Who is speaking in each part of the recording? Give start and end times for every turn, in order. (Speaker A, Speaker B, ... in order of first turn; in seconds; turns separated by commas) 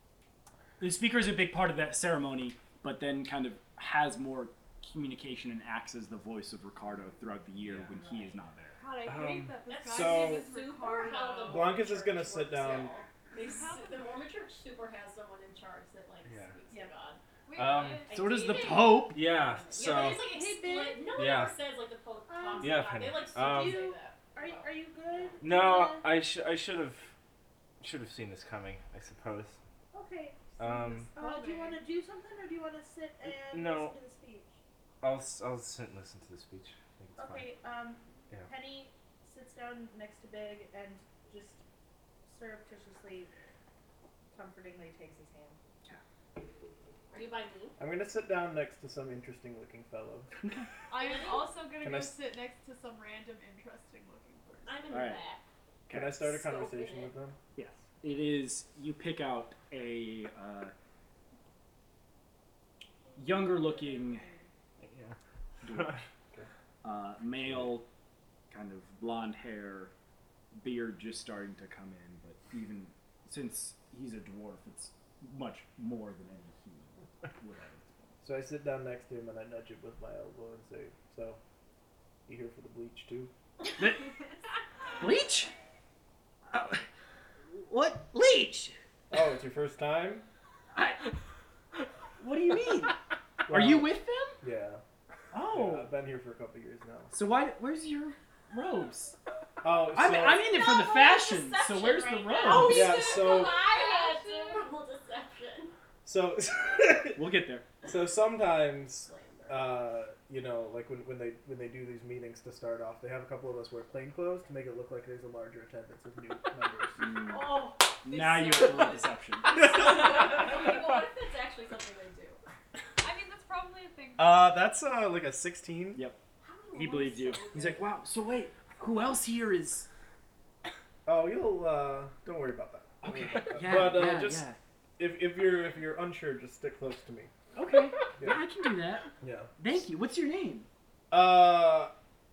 Speaker A: 0.8-8.8, Speaker B: 8.0-8.3, Speaker C: 8.8-11.7, Speaker D: 9.0-9.6, Speaker B: 9.7-17.2, Speaker E: 9.9-10.5, Speaker E: 11.4-12.9, Speaker C: 13.4-14.1, Speaker D: 16.2-16.6, Speaker F: 16.7-16.9, Speaker C: 17.5-18.1, Speaker D: 17.6-18.1, Speaker B: 18.0-24.7, Speaker A: 18.1-19.3, Speaker D: 19.1-20.2, Speaker F: 19.8-21.3, Speaker D: 21.1-21.6, Speaker F: 22.3-26.1, Speaker D: 22.6-23.8, Speaker D: 25.4-27.1, Speaker D: 27.8-29.6, Speaker F: 29.9-34.6, Speaker D: 30.6-31.1, Speaker C: 31.1-31.8, Speaker D: 33.3-34.0, Speaker D: 35.0-37.5, Speaker F: 37.2-41.6, Speaker F: 42.2-43.3, Speaker F: 44.3-45.6, Speaker B: 47.1-47.8, Speaker E: 47.8-50.3, Speaker A: 50.4-50.7, Speaker C: 50.9-54.8, Speaker B: 50.9-51.6, Speaker E: 51.8-52.2, Speaker B: 54.7-55.4, Speaker A: 54.9-55.2, Speaker A: 55.9-56.4, Speaker E: 55.9-57.4, Speaker B: 56.4-57.1, Speaker A: 57.5-60.7, Speaker A: 63.2-64.2, Speaker D: 64.8-66.0, Speaker A: 65.6-66.0, Speaker A: 66.8-67.9, Speaker D: 67.4-67.7, Speaker A: 68.5-69.9, Speaker A: 70.5-78.2, Speaker E: 78.2-81.4, Speaker E: 82.3-83.3, Speaker A: 83.8-84.1, Speaker A: 85.0-85.5, Speaker A: 86.5-86.8, Speaker A: 87.5-88.8, Speaker E: 89.1-90.3, Speaker A: 90.8-91.1, Speaker A: 92.2-94.4, Speaker E: 93.5-94.8, Speaker A: 95.3-95.9, Speaker E: 95.5-97.1, Speaker A: 97.1-99.2, Speaker E: 99.6-100.5, Speaker A: 99.9-103.0, Speaker B: 100.5-105.7, Speaker E: 102.5-103.6, Speaker C: 103.1-104.7, Speaker E: 106.0-107.2, Speaker A: 107.2-107.7, Speaker E: 107.8-117.3, Speaker B: 109.0-109.8, Speaker A: 117.0-119.6, Speaker B: 117.3-122.4, Speaker C: 118.5-119.0, Speaker C: 123.0-124.6, Speaker E: 124.2-126.0, Speaker B: 126.4-127.8, Speaker A: 126.7-129.9, Speaker E: 131.1-134.4, Speaker A: 133.0-134.6, Speaker E: 135.0-137.3, Speaker A: 137.6-139.1, Speaker E: 139.2-139.5, Speaker A: 139.6-140.7, Speaker E: 141.1-141.9